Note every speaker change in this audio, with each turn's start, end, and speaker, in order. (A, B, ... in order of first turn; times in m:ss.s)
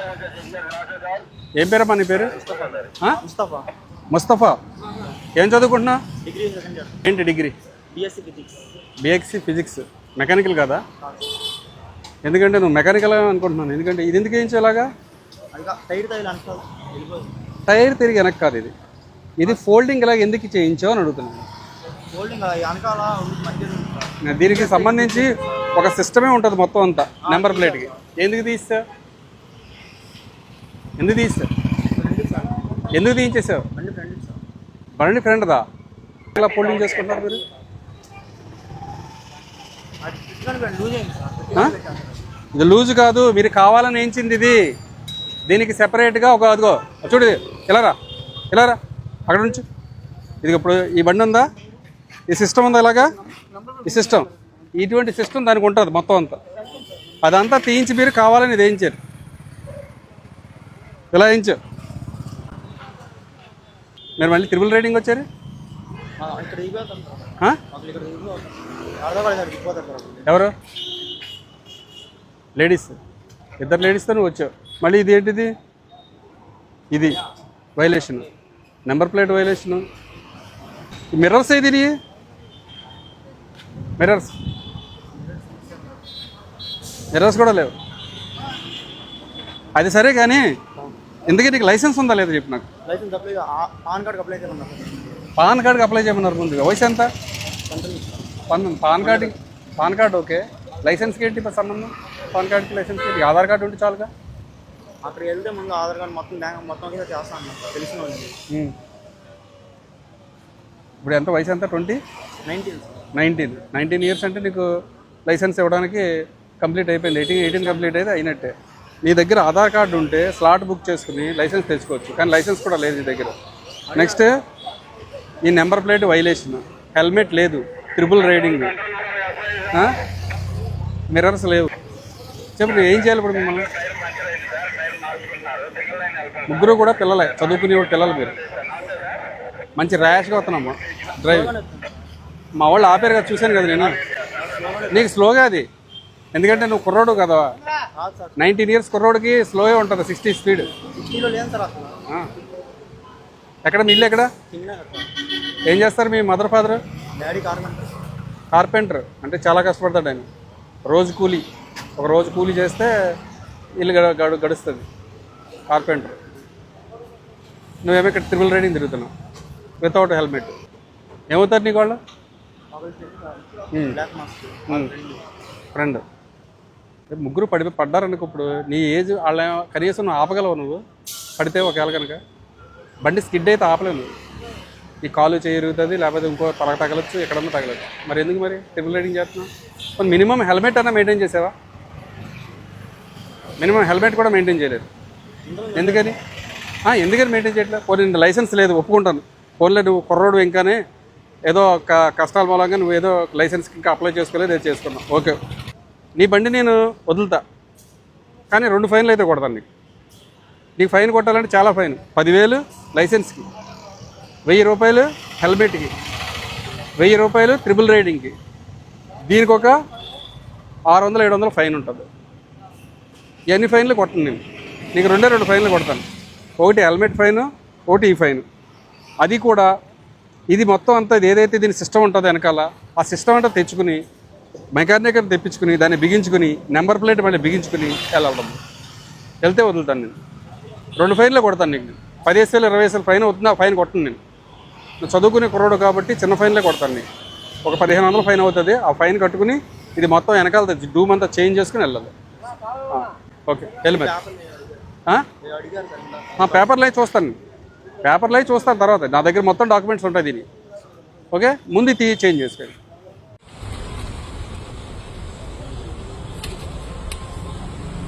0:01.6-0:02.3 A
0:02.3-0:03.7 B
0:04.1-0:04.6 A
0:05.4-0:06.0 A
0:06.2-0:07.0 B
0:07.0-0:07.5 A
0:07.9-0:08.6 B
0:09.0-0:10.8 A
0:11.0-0:11.3 B
0:12.2-0:14.9 A
0:15.5-0:17.3 B
0:17.7-0:18.7 A
0:19.4-0:21.4 A
0:22.1-0:25.6 B
0:24.2-0:28.8 A
0:27.2-0:28.0 B
0:31.0-0:31.5 A
0:31.9-0:32.6 B
0:32.9-0:33.6 A
0:33.7-0:34.4 B
0:35.0-0:35.6 A
0:36.3-0:37.4 A
0:40.0-0:42.2 B
0:42.5-0:44.6 A
0:45.5-0:47.9 A
0:48.5-0:49.6 A
0:50.4-0:51.5 A
0:52.3-0:53.2 A
0:53.8-0:56.4 A
0:57.2-0:59.0 A
1:01.1-1:01.6 A
1:04.2-1:05.2 A
1:06.2-1:10.3 B
1:10.2-1:10.5 A
1:12.6-1:13.0 A
1:13.6-1:15.5 A
1:16.9-1:17.2 A
1:17.8-1:18.3 A
1:18.8-1:19.8 A
1:21.1-1:21.9 A
1:24.0-1:24.3 A
1:25.1-1:25.9 B
1:27.1-1:27.7 A
1:29.8-1:30.5 A
1:31.3-1:32.7 A
1:32.8-1:35.2 B
1:35.4-1:37.1 A
1:37.7-1:38.2 B
1:38.5-1:44.1 A
1:39.0-1:39.4 B
1:45.0-1:48.3 B
1:48.5-1:48.7 A
1:51.0-1:52.0 A
1:52.4-1:53.0 B
1:53.1-1:54.7 A
1:55.2-1:56.0 A
1:56.6-2:03.3 A
2:03.9-2:04.2 B
2:03.9-2:04.3 A
2:05.4-2:08.8 A
2:11.1-2:11.7 A
2:12.6-2:13.7 A
2:16.5-2:18.4 A
2:19.8-2:21.5 A
2:21.2-2:22.0 B
2:22.6-2:24.0 A
2:24.3-2:25.2 B
2:24.9-2:25.6 A
2:26.3-2:27.5 A
2:28.0-2:28.5 B
2:28.4-2:30.7 A
2:30.9-2:32.0 B
2:33.6-2:34.3 A
2:34.5-2:35.1 B
2:35.6-2:36.8 A
2:37.2-2:38.0 B
2:38.5-2:40.3 A
2:40.9-2:41.4 A
2:42.0-2:42.9 A
2:43.8-2:44.8 A
2:45.7-2:46.2 A
2:47.8-2:49.1 A
2:49.8-2:50.5 A
2:51.3-2:52.0 A
2:52.7-2:55.2 B
2:53.7-2:54.0 A
2:55.7-2:56.0 A
2:57.1-3:00.8 A
3:01.4-3:02.2 A
3:03.0-3:04.1 A
3:05.0-3:11.5 A
3:13.6-3:14.8 A
3:15.5-3:16.2 B
3:15.8-3:16.2 A
3:16.8-3:20.8 A
3:21.5-3:25.4 A
3:26.2-3:27.4 A
3:28.5-3:29.6 A
3:30.8-3:33.4 A
3:34.5-3:35.9 A
3:37.0-3:38.3 A
3:39.2-3:39.8 A
3:40.9-3:42.1 A
3:43.5-3:44.4 A
3:44.9-3:46.0 A
3:46.6-3:48.4 A
3:49.2-3:49.7 A
3:50.5-3:54.0 A
3:54.7-3:58.6 A
3:59.4-4:00.2 A
4:01.0-4:04.2 A
4:05.0-4:07.0 A
4:07.6-4:12.1 A
4:12.9-4:14.1 A
4:13.8-4:14.8 B
4:15.4-4:16.7 B
4:16.4-4:17.4 A
4:18.0-4:20.5 A
4:21.3-4:22.7 A